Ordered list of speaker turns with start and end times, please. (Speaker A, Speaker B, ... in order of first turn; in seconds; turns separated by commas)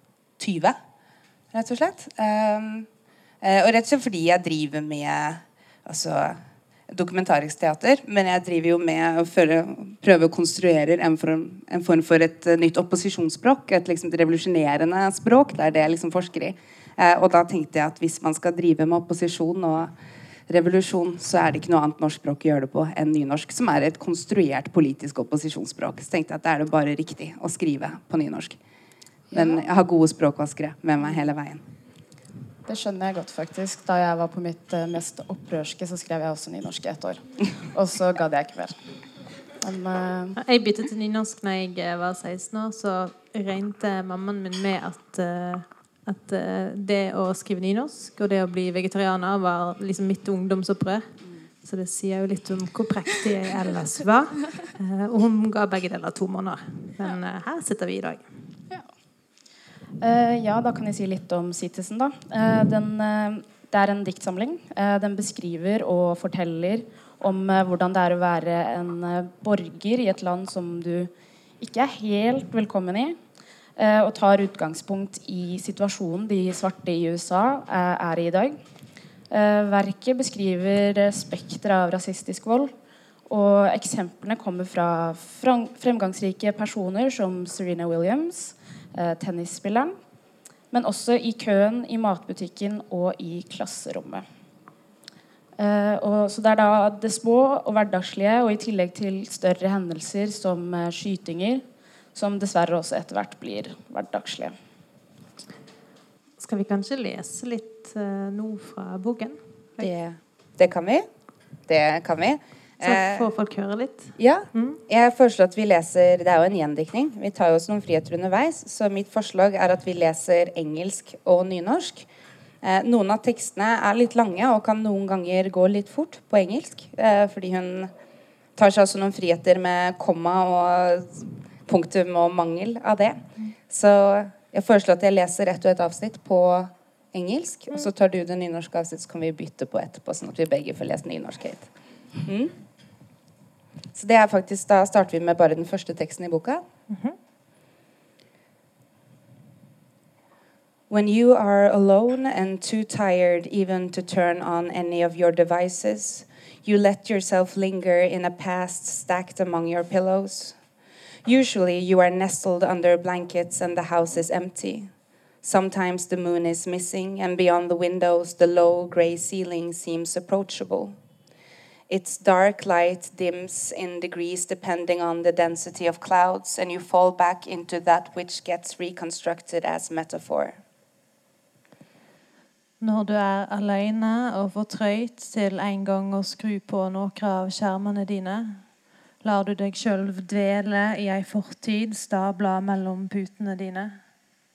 Speaker A: 0.4-0.8, Speaker A: 1.5-2.9, Speaker A: 3.4-19.9, Speaker A: 20.5-28.6, Speaker B: 29.3-29.7, Speaker A: 29.3-31.6, Speaker B: 32.6-38.8, Speaker B: 39.6-40.4, Speaker C: 40.4-51.1, Speaker C: 51.6-58.2, Speaker B: 60.0-73.2, Speaker B: 73.8-78.6, Speaker B: 79.3-82.7, Speaker B: 83.3-89.9, Speaker B: 90.7-94.2, Speaker B: 95.6-101.6, Speaker B: 102.1-104.5, Speaker C: 106.4-109.9, Speaker A: 109.8-111.1, Speaker A: 111.7-113.3, Speaker C: 112.8-114.8, Speaker A: 114.2-122.0, Speaker A: 122.6-127.9, Speaker A: 128.6-141.7, Speaker A: 142.2-142.6, Speaker A: 143.9-146.6, Speaker C: 146.9-147.2, Speaker A: 150.9-160.6, Speaker A: 161.2-164.9, Speaker A: 165.4-170.9, Speaker A: 171.9-180.6, Speaker C: 182.8-188.7, Speaker C: 189.2-194.0